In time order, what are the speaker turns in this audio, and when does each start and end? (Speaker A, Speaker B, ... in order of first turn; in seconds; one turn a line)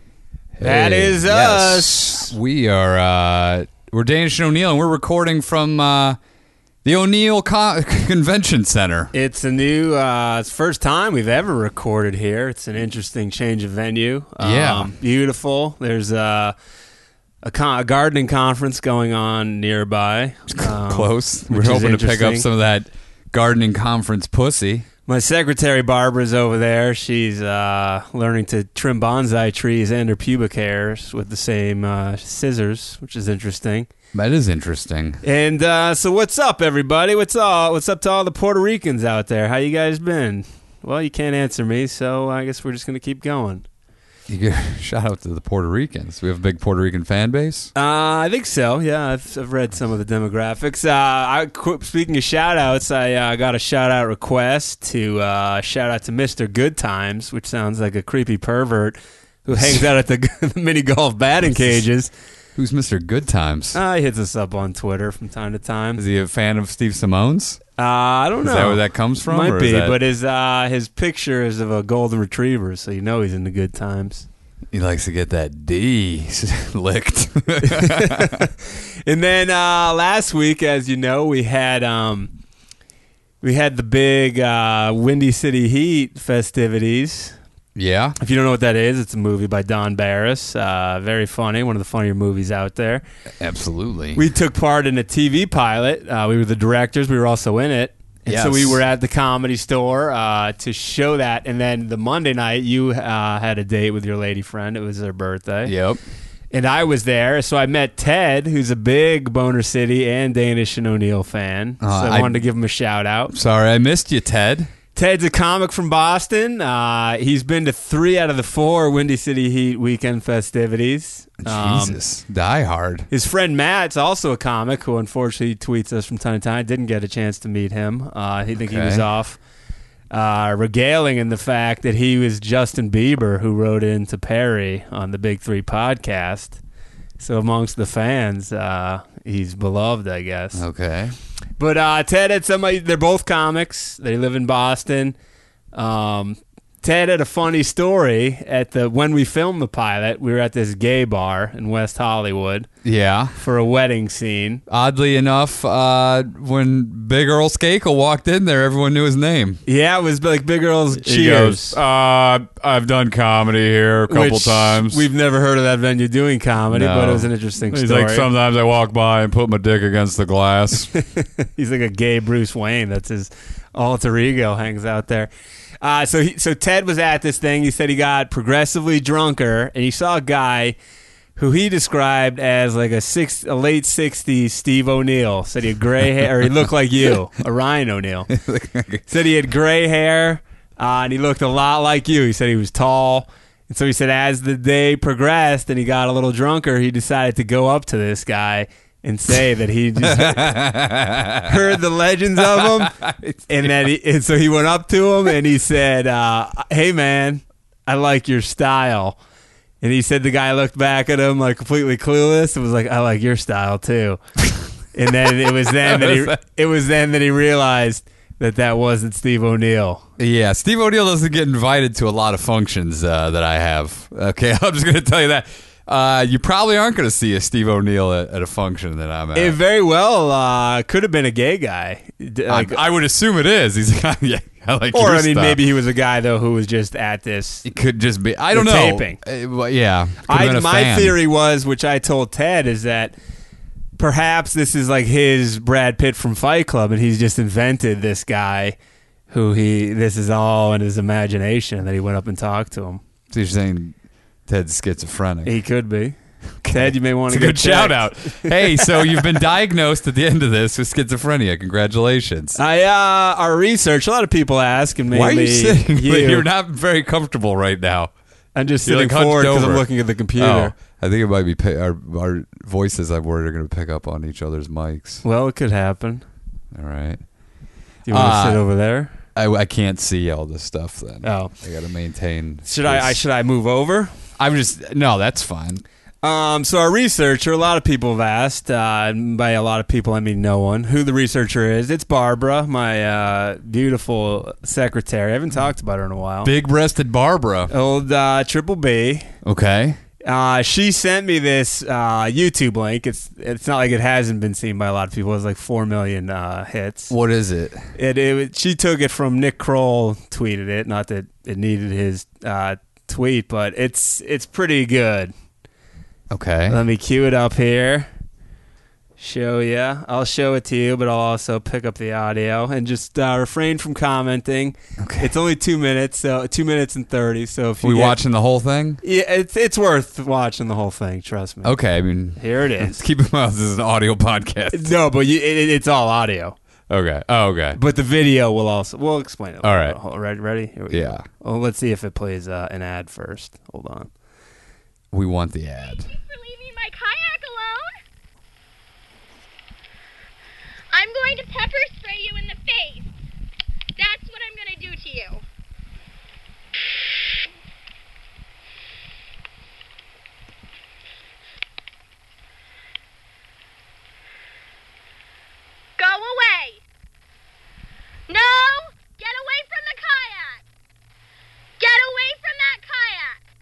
Speaker A: 0.6-6.2
Speaker B: 0.6-2.3
Speaker A: 6.8-9.1
Speaker B: 9.1-16.5
Speaker A: 14.4-14.9
Speaker B: 17.4-22.5
Speaker A: 20.6-24.9
Speaker B: 25.1-33.9
Speaker A: 34.1-35.2
Speaker B: 35.2-43.6
Speaker A: 44.3-47.7
Speaker B: 47.7-62.1
Speaker A: 62.5-63.8
Speaker B: 63.7-66.0
Speaker A: 66.0-67.6
Speaker B: 67.8-74.3
Speaker A: 68.4-70.0
Speaker A: 74.7-78.5
Speaker B: 77.6-82.3
Speaker B: 83.4-87.4
Speaker A: 87.8-88.2
Speaker B: 88.2-93.0
Speaker A: 93.4-94.2
Speaker B: 94.2-105.7
Speaker A: 98.2-98.8
Speaker A: 105.7-106.0
Speaker B: 106.5-113.3
Speaker A: 111.8-112.4
Speaker A: 113.3-114.7
Speaker B: 115.0-122.0
Speaker A: 121.4-123.1
Speaker B: 123.1-129.4
Speaker A: 128.6-129.0
Speaker B: 130.1-136.6
Speaker B: 137.2-140.6
Speaker A: 140.5-141.2
Speaker B: 141.6-145.2
Speaker B: 145.7-152.7
Speaker A: 152.8-153.4
Speaker B: 153.4-154.6
Speaker A: 154.7-159.6
Speaker B: 159.7-161.8
Speaker A: 161.0-165.1
Speaker B: 164.1-168.3
Speaker A: 166.7-170.9
Speaker B: 170.9-180.8
Speaker B: 181.4-188.3
Speaker A: 188.3-189.1
Speaker B: 189.1-200.6
Speaker A: 200.0-201.6
Speaker B: 201.4-203.0
Speaker A: 202.4-203.7
Speaker B: 203.5-209.2
Speaker B: 209.8-214.2
Speaker B: 214.9-220.0
Speaker A: 215.7-216.3
Speaker A: 220.2-229.6
Speaker B: 229.3-232.8
Speaker A: 232.5-235.6
Speaker B: 234.9-237.7
Speaker A: 237.7-241.2
Speaker B: 238.5-239.2
Speaker B: 240.3-243.2
Speaker B: 244.0-248.8
Speaker B: 249.3-253.0
Speaker A: 253.3-253.9
Speaker A: 254.5-255.5
Speaker B: 255.4-259.4
Speaker A: 256.6-262.6
Speaker B: 262.6-266.4
Speaker A: 265.1-268.1
Speaker B: 268.5-270.7
Speaker A: 268.8-275.2
Speaker B: 275.2-276.2
Speaker A: 276.7-277.2
Speaker B: 278.1-279.1
Speaker A: 278.1-278.6
Speaker A: 279.3-283.2
Speaker B: 281.2-281.5
Speaker B: 282.6-284.1
Speaker A: 284.4-285.8
Speaker B: 286.2-296.5
Speaker A: 296.4-297.7
Speaker B: 297.7-299.3
Speaker A: 299.4-300.0
Speaker B: 300.2-307.1
Speaker A: 307.1-307.8
Speaker B: 307.9-315.3
Speaker A: 316.3-316.8
Speaker B: 316.7-318.1
Speaker B: 319.2-328.2
Speaker A: 325.0-325.3
Speaker A: 327.8-329.0
Speaker B: 329.0-331.8
Speaker A: 331.6-334.9
Speaker B: 332.4-333.0
Speaker B: 334.7-336.6
Speaker A: 336.9-337.8
Speaker B: 337.8-344.1
Speaker A: 339.6-340.0
Speaker A: 340.9-341.2
Speaker A: 345.1-346.1
Speaker C: 345.9-348.0
Speaker C: 350.9-353.1
Speaker C: 353.9-355.4
Speaker C: 366.0-366.8
Speaker C: 368.3-370.6
Speaker C: 371.8-373.4